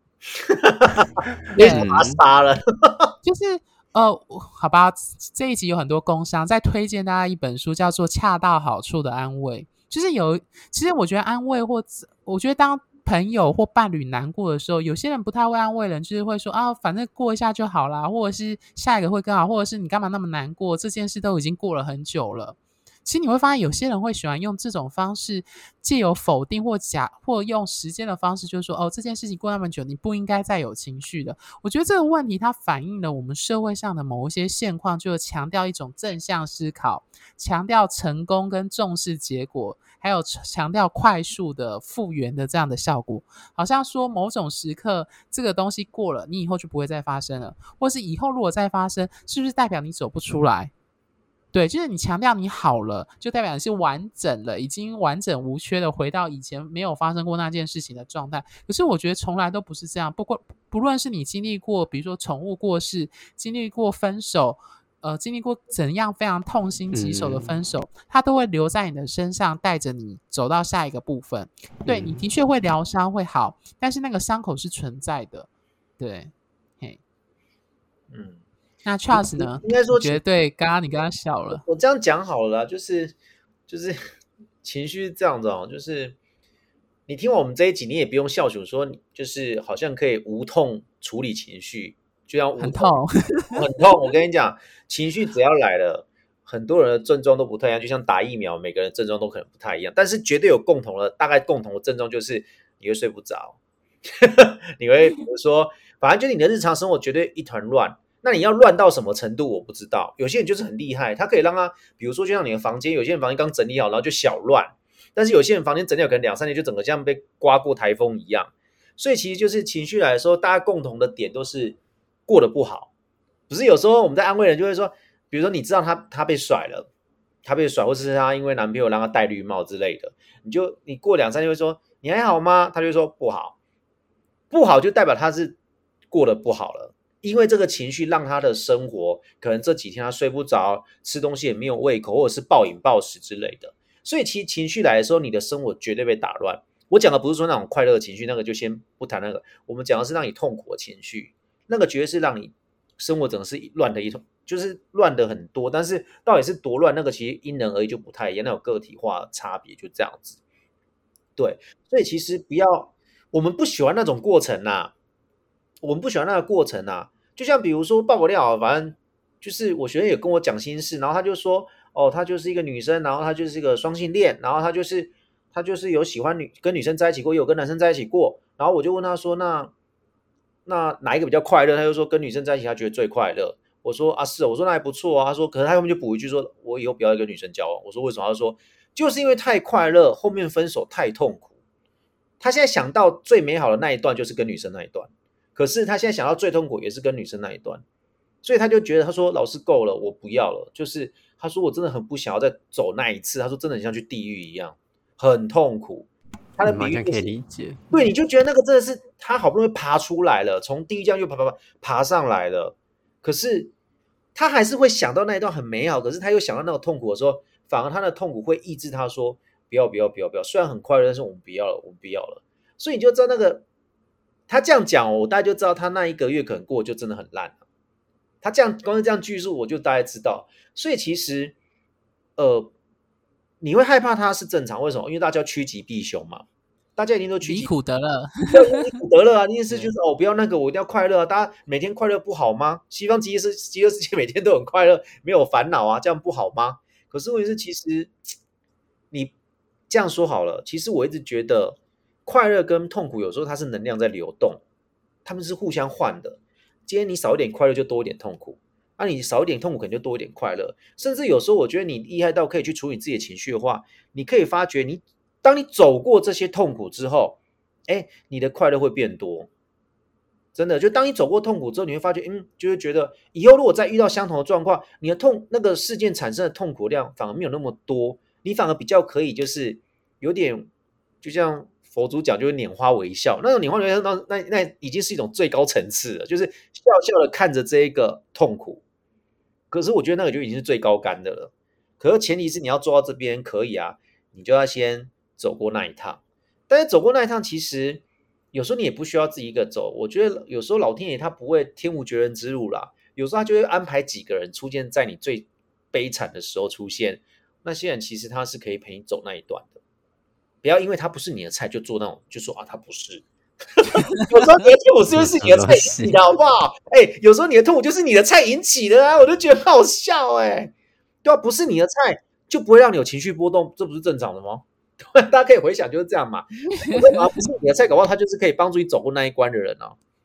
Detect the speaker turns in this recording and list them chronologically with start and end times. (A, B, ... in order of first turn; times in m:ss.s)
0:00.4-0:03.1 A
0:01.5-0:01.9 B
0:01.6-0:02.2 C
0:03.2-0:50.7 B
0:51.5-1:15.5 B
1:06.9-1:07.5 C
1:11.9-1:12.2 C
1:16.0-1:17.0 B
1:18.1-1:18.4 A
1:18.8-1:21.6 B
1:19.1-1:20.2 A
1:21.5-1:23.2 A
1:23.7-1:24.0 A
1:24.6-1:26.2 A
1:27.1-1:33.0 A
1:32.6-1:33.6 B
1:33.5-2:02.9 A
2:03.5-2:06.9 A
2:07.4-2:13.6 A
2:14.5-2:15.6 A
2:16.1-2:40.4 A
2:41.4-2:44.9 A
2:45.8-2:59.7 A
3:00.7-3:11.5 A
3:12.4-3:17.8 A
3:18.4-3:27.3 A
3:26.6-3:27.8 C
3:27.9-3:33.7 A
3:34.4-3:43.6 A
3:44.5-3:47.6 A
3:48.4-3:51.6 A
3:52.4-3:52.7 A
3:53.6-3:56.4 A
3:57.0-3:57.7 A
3:57.4-3:58.9 B
3:58.5-4:08.1 A
4:09.9-4:14.6 A
4:15.2-4:29.5 A
4:30.5-4:40.7 A
4:41.2-4:48.8 A
4:49.7-5:09.8 A
5:10.6-5:13.2 A
5:13.8-5:20.7 A
5:15.1-5:16.1 C
5:21.2-5:30.0 A
5:26.7-5:27.5 B